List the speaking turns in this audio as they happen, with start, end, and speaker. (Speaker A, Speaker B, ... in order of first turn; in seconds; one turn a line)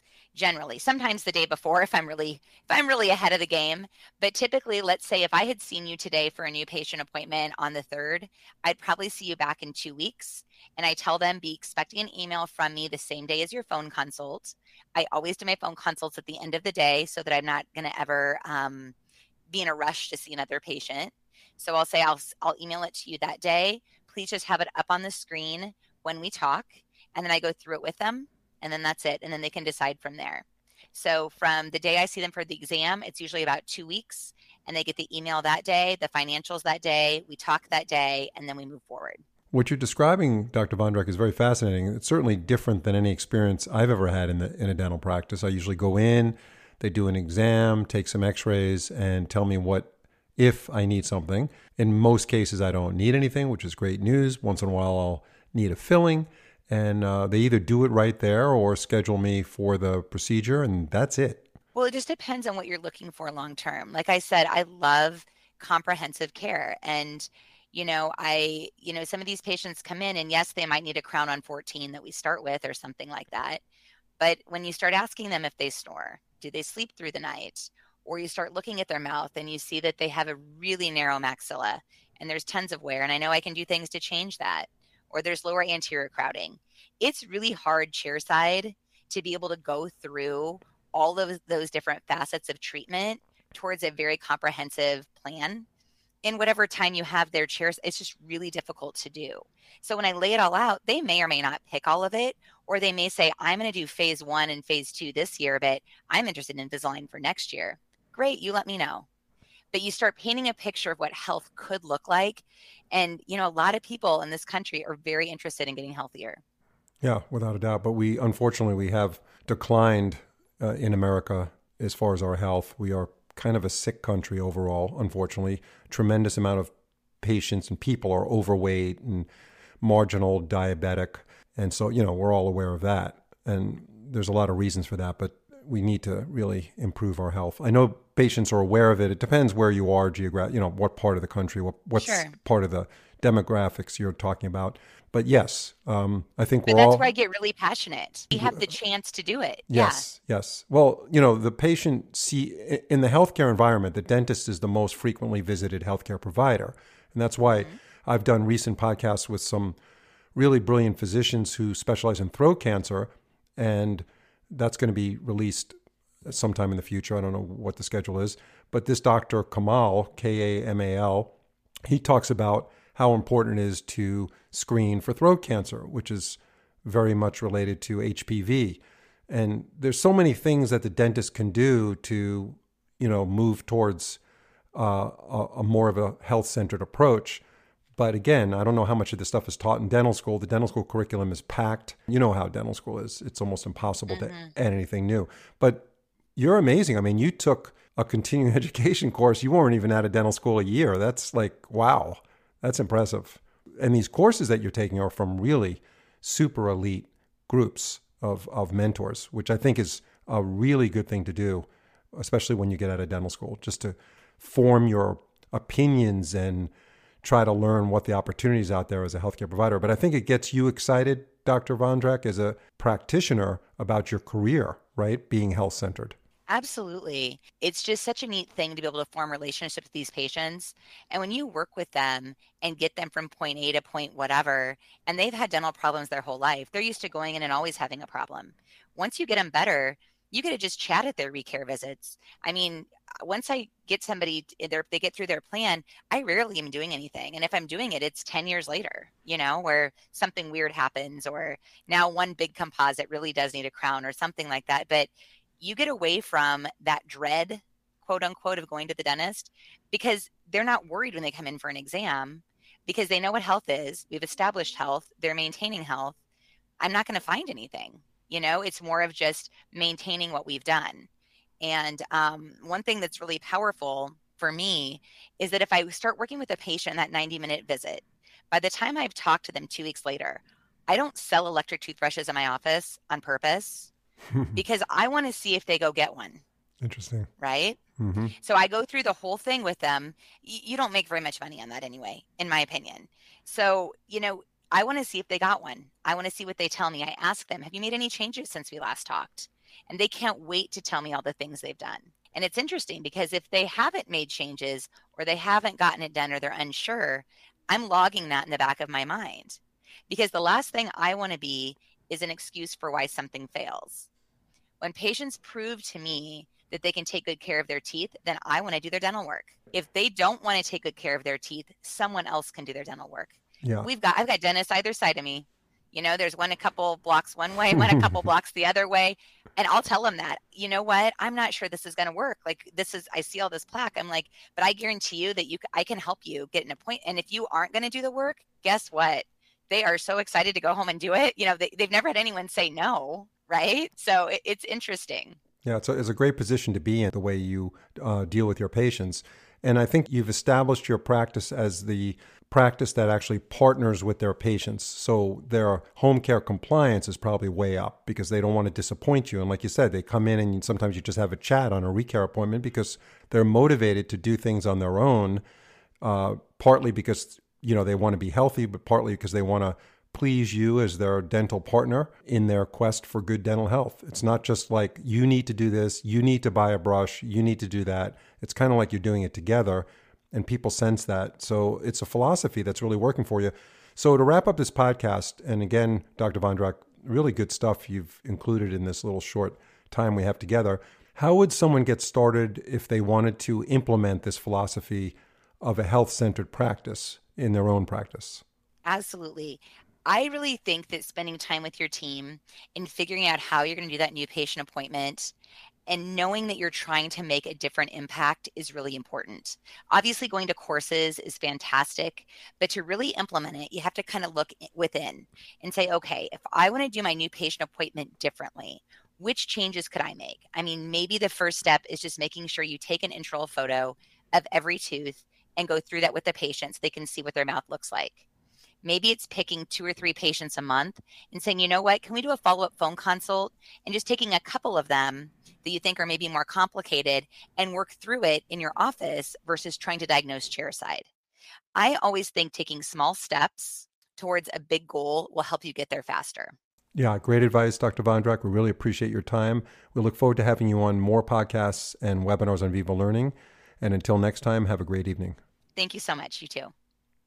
Speaker A: 0.3-18.9
Speaker A: 19.5-39.2
Speaker B: 39.5-61.5
Speaker A: 61.8-73.6
Speaker A: 74.2-95.7
Speaker A: 96.2-109.1
Speaker A: 109.7-116.4
Speaker B: 117.0-129.3
Speaker B: 129.8-147.1
Speaker A: 142.0-142.3
Speaker A: 146.7-150.1
Speaker B: 148.3-148.6
Speaker B: 149.7-159.8
Speaker A: 157.5-157.8
Speaker B: 160.3-165.7
Speaker B: 166.2-171.3
Speaker B: 171.9-184.2
Speaker B: 184.7-187.4
Speaker B: 188.0-216.7
Speaker A: 194.1-194.5
Speaker B: 217.2-226.1
Speaker A: 226.5-266.1
Speaker A: 266.8-271.1
Speaker A: 271.6-283.9
Speaker B: 284.3-284.6
Speaker A: 284.5-286.4
Speaker B: 286.8-287.3
Speaker A: 287.4-287.8
Speaker B: 288.0-288.3
Speaker A: 288.4-314.1
Speaker A: 314.8-345.4
Speaker B: 323.6-323.9
Speaker B: 345.6-365.4
Speaker B: 366.0-398.4
Speaker A: 398.9-405.3
Speaker A: 405.9-428.2
Speaker A: 428.8-441.1
Speaker A: 441.8-446.6
Speaker B: 446.9-455.4
Speaker A: 455.8-456.7